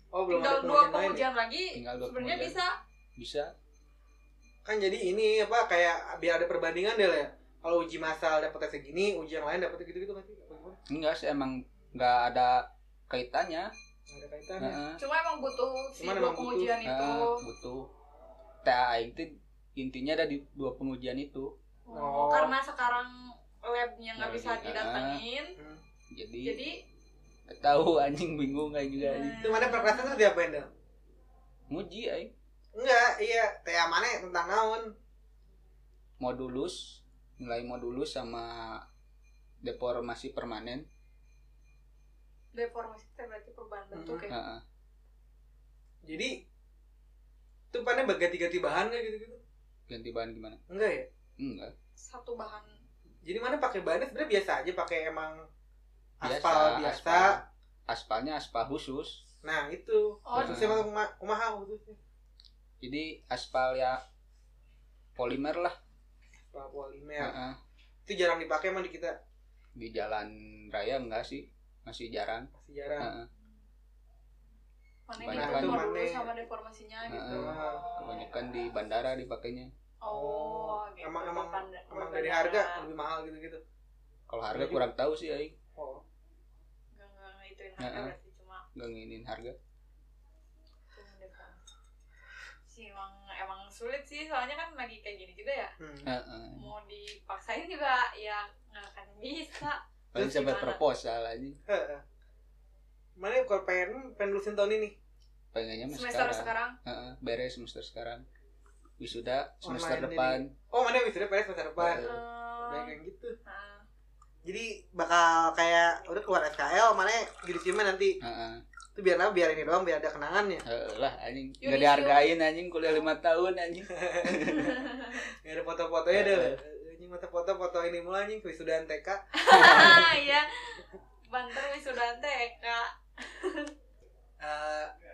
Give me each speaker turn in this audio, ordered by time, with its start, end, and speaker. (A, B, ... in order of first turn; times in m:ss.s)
0:00.1-0:01.2 A
0:00.3-0:02.8 B
0:01.8-0:02.6 C
0:03.2-0:03.5 C
0:04.6-0:10.8 A
0:10.9-0:13.7 C
0:14.1-0:14.8 A
0:14.6-0:15.0 C
0:15.0-0:17.4 B
0:16.0-0:16.8 A
0:16.8-0:17.9 C
0:18.6-0:21.5 C
0:21.9-0:25.6 B
0:21.9-0:22.5 A
0:24.2-0:25.2 C
0:25.6-0:25.8 A
0:26.1-0:26.6 C
0:26.4-0:26.8 B
0:27.5-0:29.4 C
0:29.0-0:30.2 B
0:29.4-0:30.7 A
0:31.7-0:32.3 C
0:32.8-0:34.9 A
0:36.2-0:38.8 C
0:39.6-0:40.9 C
0:42.5-0:44.3 B
0:43.9-0:44.3 A
0:44.3-0:44.6 C
0:46.0-0:46.4 A
0:47.7-0:49.4 A
0:49.9-0:50.6 C
0:50.7-0:51.1 A
0:51.4-0:51.7 C
0:52.0-0:52.7 B
0:53.3-0:55.5 A
0:56.2-0:57.4 A
0:56.2-0:59.2 C
0:59.4-1:02.0 A
1:00.3-1:00.6 B
1:00.4-1:00.9 C
1:02.8-1:04.0 C
1:05.2-1:05.8 C
1:06.5-1:07.4 A
1:07.2-1:07.6 C
1:08.1-1:09.2 A
1:09.8-1:13.3 C
1:12.6-1:13.1 A
1:15.1-1:18.0 B
1:15.2-1:15.8 C
1:15.3-1:16.3 A
1:17.1-1:19.7 C
1:17.3-1:17.9 A
1:20.0-1:22.8 B
1:20.1-1:23.6 A
1:24.3-1:25.6 C
1:24.5-1:24.8 A
1:25.8-1:26.0 A
1:26.9-1:28.6 B
1:27.8-1:28.1 C
1:28.8-1:29.6 C
1:30.9-1:31.6 B
1:32.7-1:35.7 B
1:35.8-1:36.1 A
1:36.1-1:36.7 C
1:36.6-1:40.8 B
1:40.1-1:41.6 C
1:41.7-1:42.0 A
1:43.2-1:45.0 A
1:45.5-1:48.2 C
1:45.9-1:46.8 B
1:49.0-1:50.5 C
1:49.6-1:52.1 A
1:51.8-1:52.2 C
1:52.0-1:53.8 B
1:52.6-1:53.4 A
1:54.4-1:58.2 A
1:58.2-1:58.6 C
1:59.0-2:00.6 A
2:00.7-2:04.8 C
2:01.6-2:02.3 B
2:03.9-2:10.2 A
2:04.6-2:05.2 B
2:06.1-2:06.6 C
2:09.4-2:13.7 B
2:14.4-2:14.9 A